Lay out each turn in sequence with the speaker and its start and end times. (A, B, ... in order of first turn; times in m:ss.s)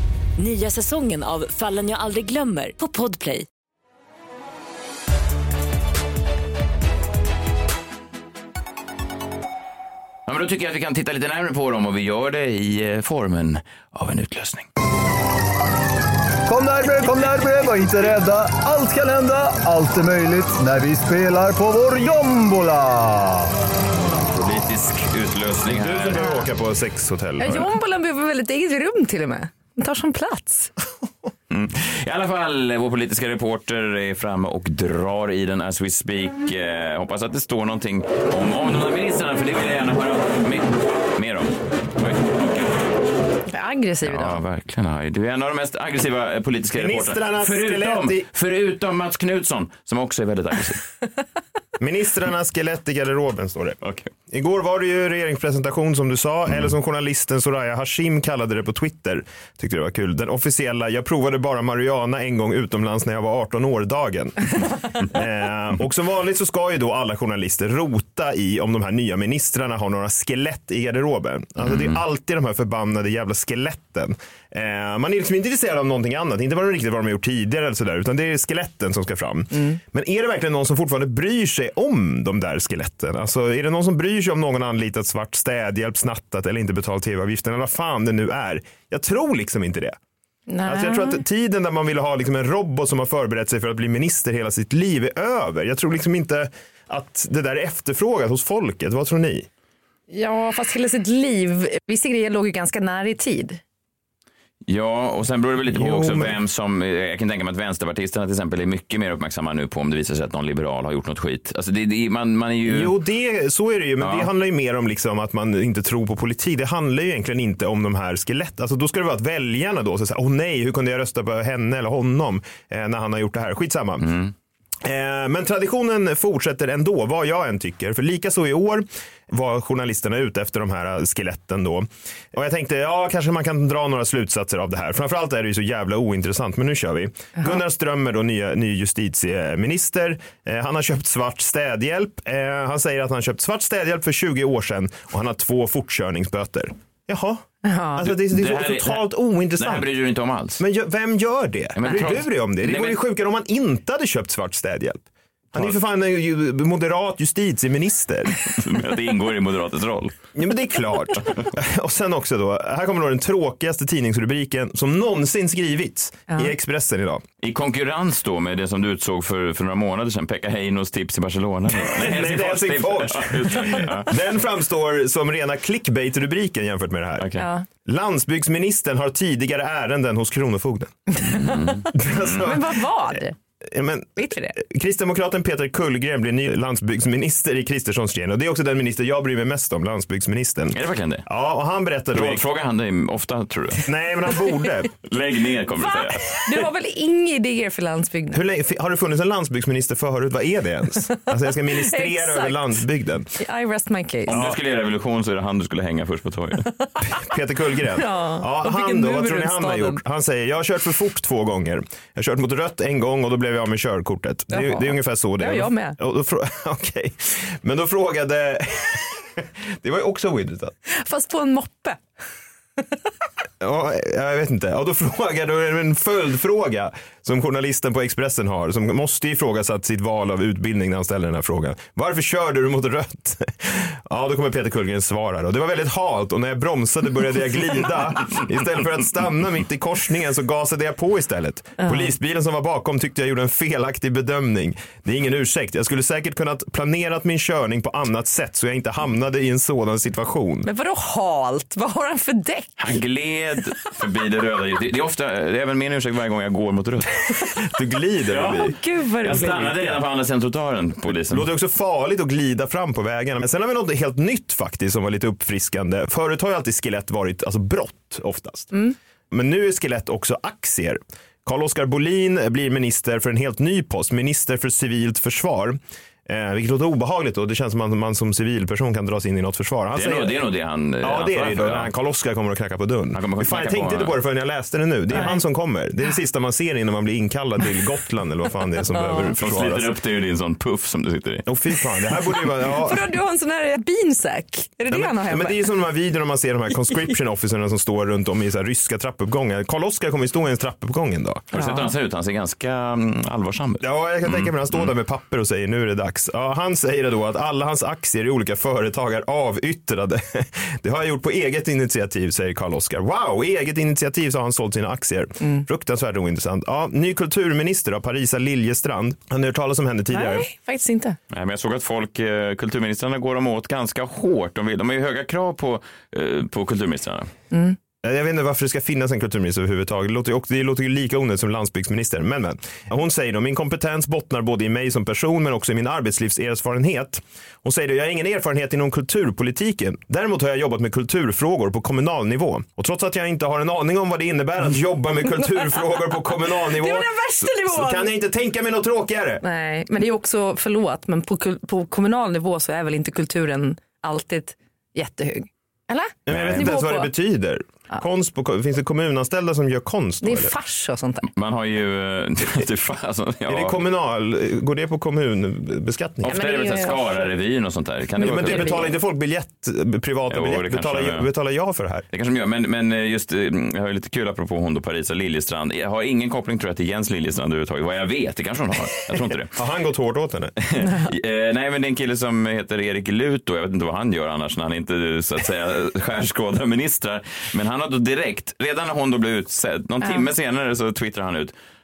0:00.4-0:03.5 A
0:10.3-0:14.7 B
0:16.5-0:23.5 C
0:24.3-0:26.2 B
0:25.7-0:27.7 D
0:27.4-0:30.7 E
0:31.5-0:42.8 B
0:43.5-0:44.4 E
0:44.0-0:50.8 B
0:46.8-0:48.2 D
0:51.8-1:30.0 D
0:53.8-0:54.1 B
1:11.6-1:12.0 B
1:30.5-1:31.2 E
1:30.6-1:39.5 D
1:40.1-1:43.6 E
1:44.7-1:52.9 B
1:45.7-1:46.4 D
1:52.7-2:04.2 D
1:54.0-1:54.3 B
2:04.0-2:04.3 B
2:04.8-2:29.9 D
2:27.6-2:28.0 E
2:28.0-2:30.6 B
2:30.6-2:38.4 D
2:31.8-2:33.0 B
2:38.5-2:40.1 B
2:40.4-2:47.2 D
2:47.4-2:54.1 B
2:51.8-2:57.3 D
2:57.2-2:57.5 B
2:57.4-2:57.7 E
2:57.9-3:01.1 D
3:01.2-3:02.3 B
3:01.9-3:03.4 E
3:02.0-3:02.8 D
3:03.6-3:12.4 D
3:04.2-3:04.6 E
3:10.7-3:11.2 B
3:12.1-3:13.8 B
3:13.8-3:14.9 D
3:15.0-3:16.5 B
3:15.8-3:18.4 E
3:18.3-3:23.4 D
3:21.5-3:22.7 E
3:23.4-3:24.4 E
3:24.3-3:26.7 B
3:24.3-3:24.6 D
3:27.0-3:40.7 D
3:28.0-3:30.0 E
3:34.5-3:36.0 E
3:40.9-3:42.0 E
3:43.6-4:10.7 D
4:10.6-4:12.8 E
4:12.8-4:17.4 B
4:17.7-4:18.8 D
4:18.3-4:21.5 B
4:18.6-4:19.7 E
4:21.3-4:28.7 D
4:29.3-4:40.4 D
4:39.9-4:41.9 B
4:41.0-4:49.9 D
4:43.1-4:44.2 B
4:45.1-4:45.4 E
4:49.1-4:51.5 B
4:51.5-4:53.0 D
4:52.3-4:55.7 E
4:54.9-5:01.6 D
5:01.5-5:04.9 B
5:01.5-5:01.8 E
5:03.8-5:20.5 D
5:20.1-5:21.2 E
5:21.3-5:27.3 B
5:27.5-5:27.8 E
5:28.0-5:49.4 D
5:46.6-5:48.1 E
5:49.4-5:57.1 E
5:56.3-6:00.5 D
5:56.3-5:56.7 B
6:00.2-6:01.3 E
6:01.4-6:03.8 B
6:03.5-6:06.4 D
6:06.2-6:08.9 B
6:06.3-6:07.3 E
6:08.2-6:12.0 D
6:08.2-6:08.8 E
6:10.3-6:11.3 B
6:12.1-6:19.6 B
6:19.6-6:20.6 D
6:20.6-6:31.5 B